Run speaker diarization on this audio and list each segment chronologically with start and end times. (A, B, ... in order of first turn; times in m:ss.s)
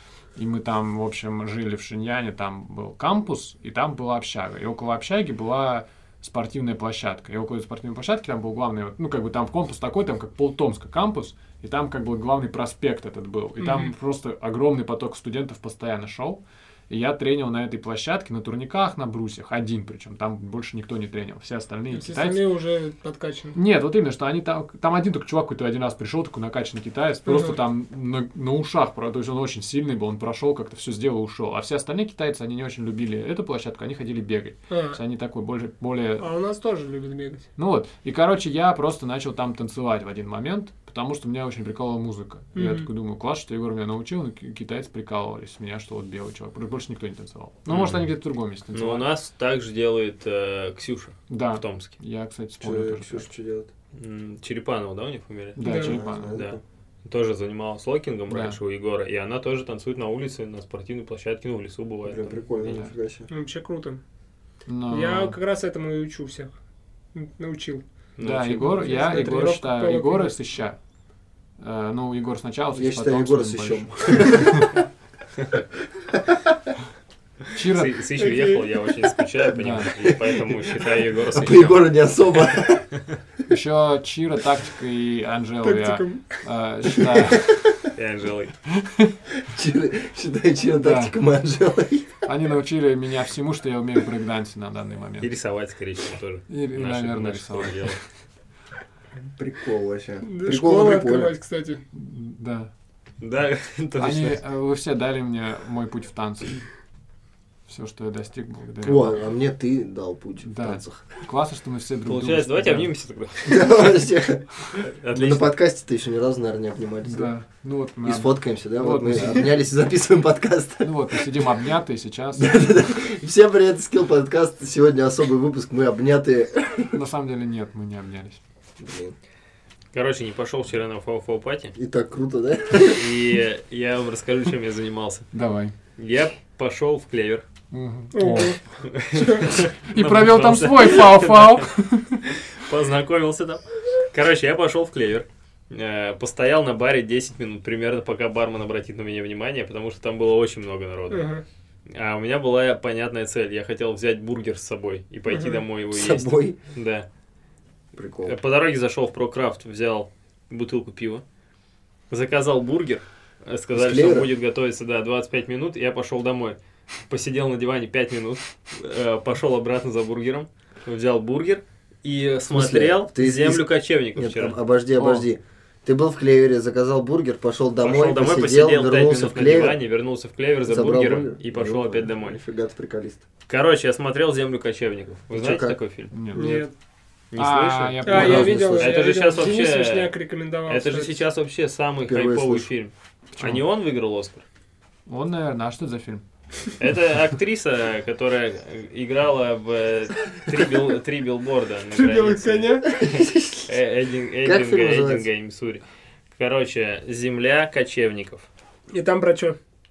0:00.4-0:22.4 A
0:13.6-0:13.9 B
0:21.9-0:23.6 B
0:23.5-0:36.2 A
0:27.2-0:27.6 B
0:34.7-0:35.0 B
0:36.2-0:37.5 B
0:37.6-0:49.1 A
0:42.5-0:42.9 B
0:47.7-0:48.1 C
0:48.7-0:51.9 C
0:51.3-0:53.3 A
0:52.6-0:53.7 D
0:53.9-1:02.8 C
0:55.6-0:56.4 A
0:55.6-0:56.0 B
0:55.6-0:56.6 D
0:58.3-0:58.6 A
1:02.0-1:03.3 D
1:02.6-1:02.9 A
1:03.3-1:04.0 B
1:04.6-1:05.4 A
1:04.9-1:06.5 B
1:07.1-1:07.8 B
1:08.2-1:09.0 C
1:08.2-1:10.8 A
1:08.6-1:10.4 B
1:11.6-1:14.7 A
1:12.7-1:14.7 D
1:17.5-1:18.0 A
1:17.7-1:21.8 C
1:18.2-1:18.7 B
1:19.6-1:20.2 A
1:21.3-1:22.9 D
1:23.5-1:27.6 A
1:25.6-1:27.1 B
1:27.9-1:28.5 C
1:28.8-1:29.1 A
1:29.5-1:32.2 D
1:30.8-1:31.1 A
1:32.2-1:35.3 A
1:35.2-1:38.0 C
1:36.5-1:38.0 A
1:39.2-1:41.3 D
1:40.2-1:41.8 B
1:41.9-1:42.7 A
1:43.2-1:44.4 C
1:44.0-1:46.7 A
1:47.7-1:49.2 A
1:48.8-1:51.2 D
1:50.4-1:52.9 A
1:52.0-1:53.8 C
1:53.4-1:57.3 D
1:54.8-1:55.6 C
1:57.0-1:59.6 A
1:58.0-2:01.2 D
2:00.8-2:02.6 A
2:02.3-2:07.0 D
2:06.9-2:08.4 A
2:08.8-2:09.2 D
2:09.9-2:11.7 C
2:11.7-2:13.0 D
2:12.9-2:15.3 C
2:15.3-2:15.7 A
2:16.0-2:17.4 C
2:17.7-2:18.6 A
2:18.1-2:19.6 B
2:18.8-2:21.7 C
2:19.9-2:22.2 A
2:22.3-2:31.3 C
2:31.1-2:31.4 B
2:31.9-2:37.0 C
2:35.3-2:35.6 B
2:35.9-2:36.6 D
2:37.9-2:38.4 D
2:38.2-2:41.2 C
2:42.1-2:54.6 C
2:43.7-2:44.3 D
2:52.5-2:59.8 D
2:54.9-2:55.3 A
2:57.8-3:02.4 C
3:00.6-3:03.2 D
3:03.5-3:06.6 C
3:05.3-3:05.8 D
3:06.1-3:06.7 A
3:06.3-3:06.7 B
3:07.3-3:10.1 C
3:07.4-3:08.7 A
3:08.0-3:11.2 B
3:08.1-3:09.0 D
3:10.7-3:14.4 C
3:12.1-3:12.7 D
3:13.4-3:13.6 A
3:15.1-3:16.2 A
3:16.8-3:28.5 C
3:21.9-3:22.9 B
3:22.9-3:23.7 D
3:24.4-3:25.3 D
3:28.9-3:29.6 B